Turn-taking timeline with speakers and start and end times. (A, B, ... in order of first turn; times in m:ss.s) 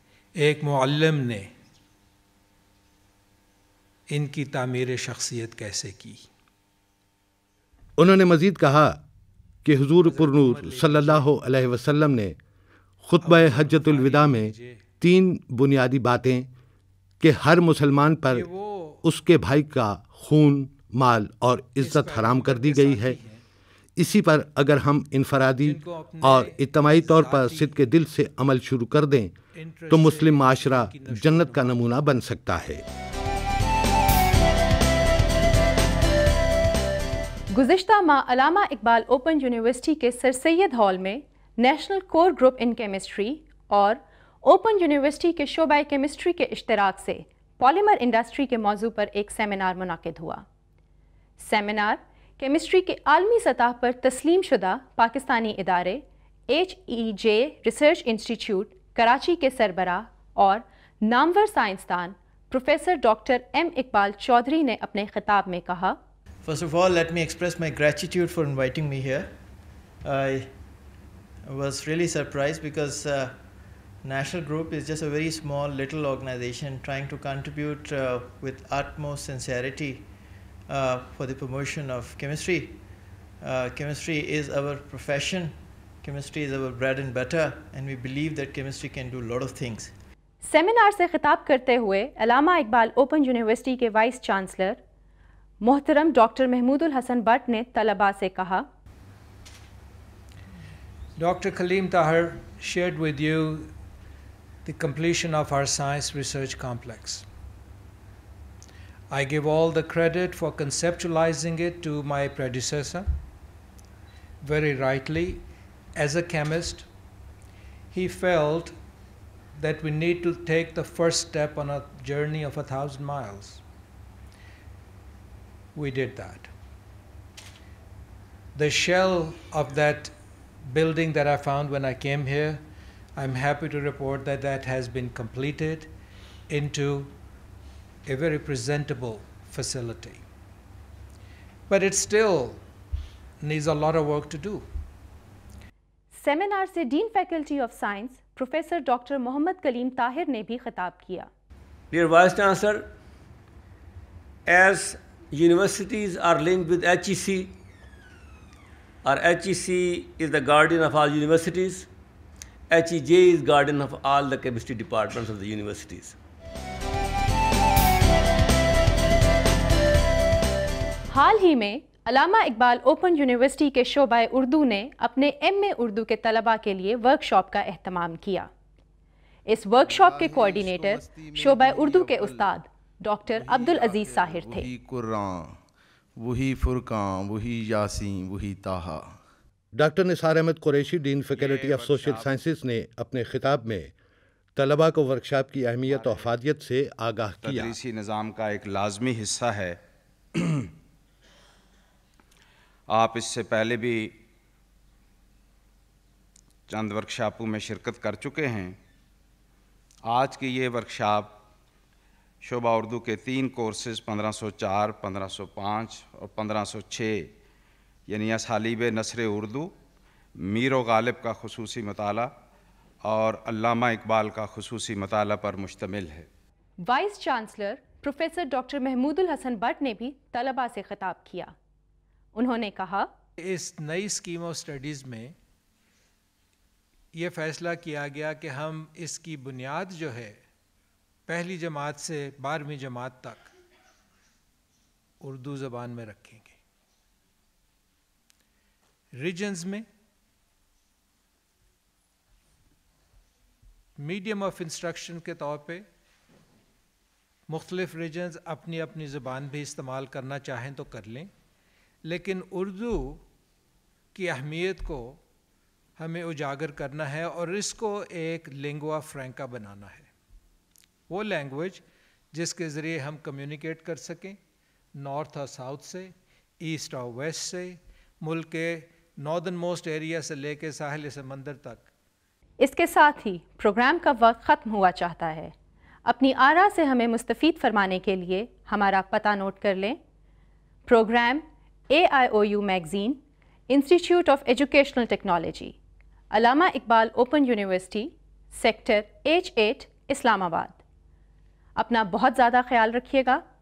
0:00.4-0:01.5 A
0:04.1-0:06.3 A
0:08.0-0:09.0 B
0:09.6-0:12.4 B
0:10.0-0:11.3 A
0:13.0-0:16.5 B
0:13.2-0:14.8 A
0:17.2-0:18.5 B
0:18.3-0:19.0 A
0:19.0-0:23.2 B
0:21.8-0:23.4 A
0:24.0-0:29.4 B
0:25.6-0:27.8 A
0:29.6-0:31.9 A
0:29.9-0:32.8 B
0:37.5-0:50.4 C
0:51.4-1:06.0 C
1:06.4-1:09.4 D
1:10.0-1:10.6 D
1:11.4-1:13.4 D
1:14.0-1:20.1 D
1:20.7-1:22.8 D
1:23.4-1:29.9 D
1:30.4-1:34.8 C
1:35.6-1:38.7 C
1:41.2-1:43.7 A
1:44.6-1:47.2 A
1:49.1-1:53.1 A
1:54.4-1:55.4 A
1:56.0-1:56.9 A
1:57.9-1:58.8 A
1:59.6-2:03.6 A
2:05.8-2:06.5 A
2:08.6-2:10.1 A
2:10.6-2:12.6 A
2:13.2-2:15.9 A
2:16.5-2:17.1 A
2:18.1-2:20.2 A
2:21.7-2:22.6 A
2:23.4-2:24.6 A
2:26.1-2:31.3 C
2:31.9-2:32.9 E
2:34.4-2:37.6 E
2:39.0-2:41.9 E
2:42.7-2:46.2 E
2:51.1-2:58.5 C
2:59.5-3:04.7 C
2:59.8-3:02.6 F
3:03.2-3:05.6 F
3:06.2-3:09.2 F
3:09.8-3:13.9 B
3:11.3-3:12.0 G
3:11.5-3:12.2 F
3:14.6-3:17.8 B
3:15.9-3:16.3 G
3:17.4-3:19.8 G
3:20.4-3:20.7 G
3:22.9-3:24.2 G
3:26.7-3:28.8 G
3:30.1-3:31.4 G
3:32.4-3:37.3 G
3:38.1-3:39.7 G
3:40.4-3:42.3 G
3:43.0-3:46.3 G
3:46.8-3:51.5 C
3:52.4-3:53.1 C
3:53.4-3:55.4 A
3:57.1-4:00.4 A
4:01.3-4:03.5 A
4:05.2-4:06.6 A
4:09.2-4:09.9 A
4:14.0-4:15.9 A
4:17.5-4:21.3 A
4:22.0-4:23.2 A
4:24.1-4:25.2 A
4:26.0-4:30.1 A
4:31.1-4:34.4 A
4:34.9-4:41.9 A
4:42.6-4:45.5 C
4:46.1-4:50.0 C
4:50.9-4:55.8 C
4:56.3-5:00.8 C
5:01.8-5:03.4 C